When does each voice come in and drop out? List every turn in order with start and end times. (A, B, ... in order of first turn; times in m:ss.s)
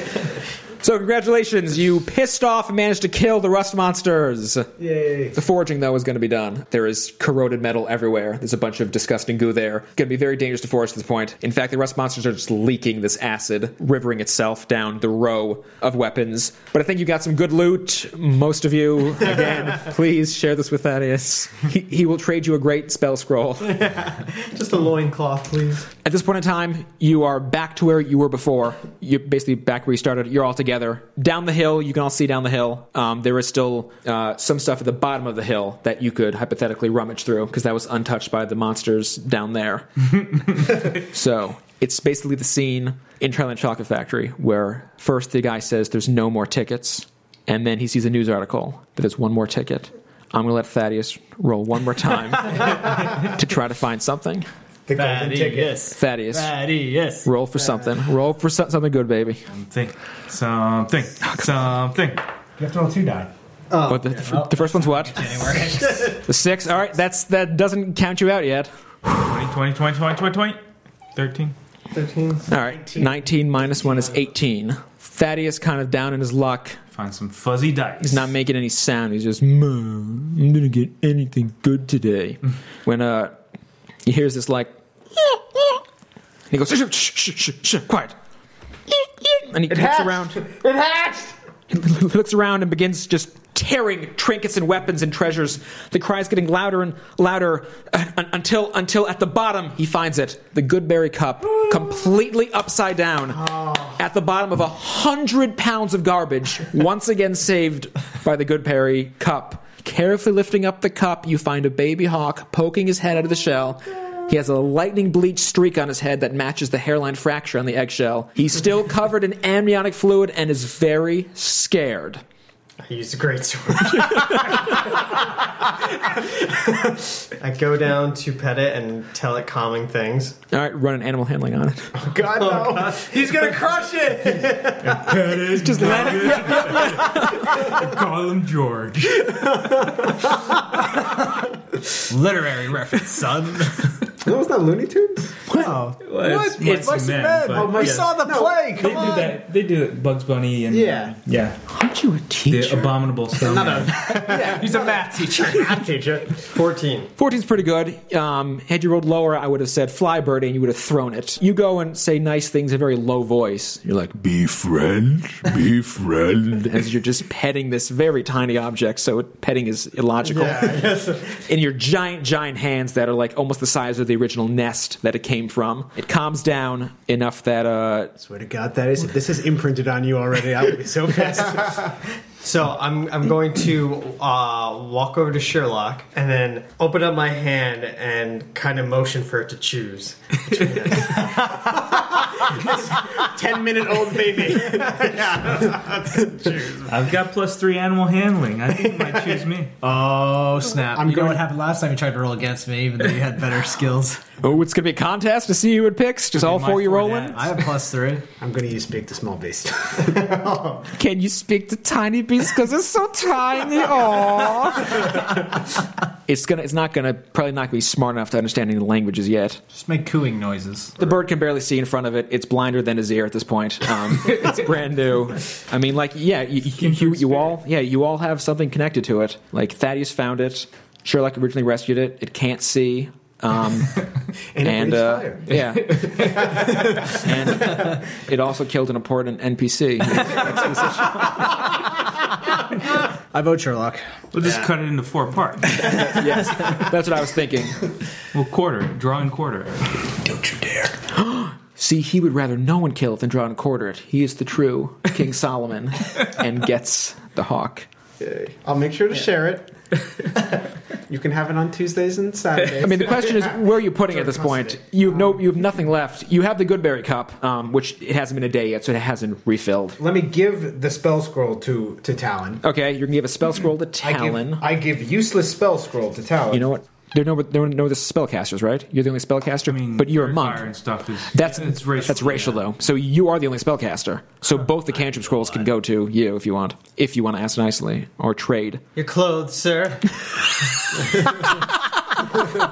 0:00.8-0:04.7 A
0:04.8-0:05.3 B
0:05.3-0:23.9 A
0:23.6-0:25.9 C
0:26.0-0:54.5 A
0:54.9-0:55.8 B
0:54.9-0:57.3 D
0:55.9-0:56.5 A
0:57.2-0:59.4 A
0:59.5-1:02.2 E
1:02.6-1:03.3 B
1:03.7-1:04.0 C
1:03.9-1:08.7 A
1:04.0-1:06.2 D
1:09.1-1:10.6 E
1:11.1-1:11.5 E
1:11.9-1:12.4 C
1:12.5-1:16.8 A
1:12.7-1:14.1 B
1:16.9-1:18.2 E
1:18.0-1:23.4 A
1:24.0-1:25.8 A
1:26.5-1:28.2 A
1:28.9-1:30.4 A
1:29.7-1:31.3 B
1:31.7-2:02.2 A
1:43.4-1:43.8 B
2:02.8-2:10.4 C
2:03.9-2:04.7 A
2:10.5-2:12.0 A
2:11.9-2:13.4 B
2:12.4-2:15.0 C
2:14.4-2:17.3 B
2:14.9-2:19.5 E
2:15.5-2:17.6 A
2:19.3-2:20.6 B
2:22.1-2:23.9 D
2:24.2-2:25.7 B
2:25.5-2:25.7 A
2:25.5-2:29.3 D
2:26.0-2:28.1 E
2:27.4-2:29.2 B
2:28.8-2:31.6 E
2:30.7-2:31.2 B
2:31.7-2:33.0 A
2:32.4-2:34.2 E
2:33.4-2:36.5 B
2:33.9-2:35.8 D
2:36.5-2:37.1 C
2:37.2-2:58.1 A
2:50.2-2:51.4 C
2:58.2-3:02.0 B
3:02.4-3:11.6 C
3:11.5-3:16.8 B
3:16.8-3:19.7 E
3:19.8-3:24.2 D
3:20.9-3:21.4 B
3:24.4-3:27.4 A
3:26.3-3:27.6 E
3:27.3-3:28.2 D
3:28.4-3:30.9 B
3:31.0-3:35.2 A
3:36.2-3:39.6 A
3:39.7-3:41.0 D
3:41.0-3:54.0 A
3:46.8-3:47.5 E
3:54.5-3:56.9 B
3:54.6-4:01.5 A
4:03.3-4:04.2 D
4:04.3-4:06.0 E
4:05.8-4:07.8 A
4:08.3-4:10.0 E
4:10.2-4:10.8 B
4:11.1-4:17.9 A
4:18.2-4:19.7 B
4:21.1-4:23.6 B
4:22.8-4:30.0 A
4:24.1-4:25.4 B
4:30.0-4:32.6 B
4:32.6-4:34.6 A
4:34.0-4:36.6 B
4:36.5-4:40.7 A
4:39.7-4:42.6 E
4:41.3-4:48.8 A
4:49.0-4:50.2 C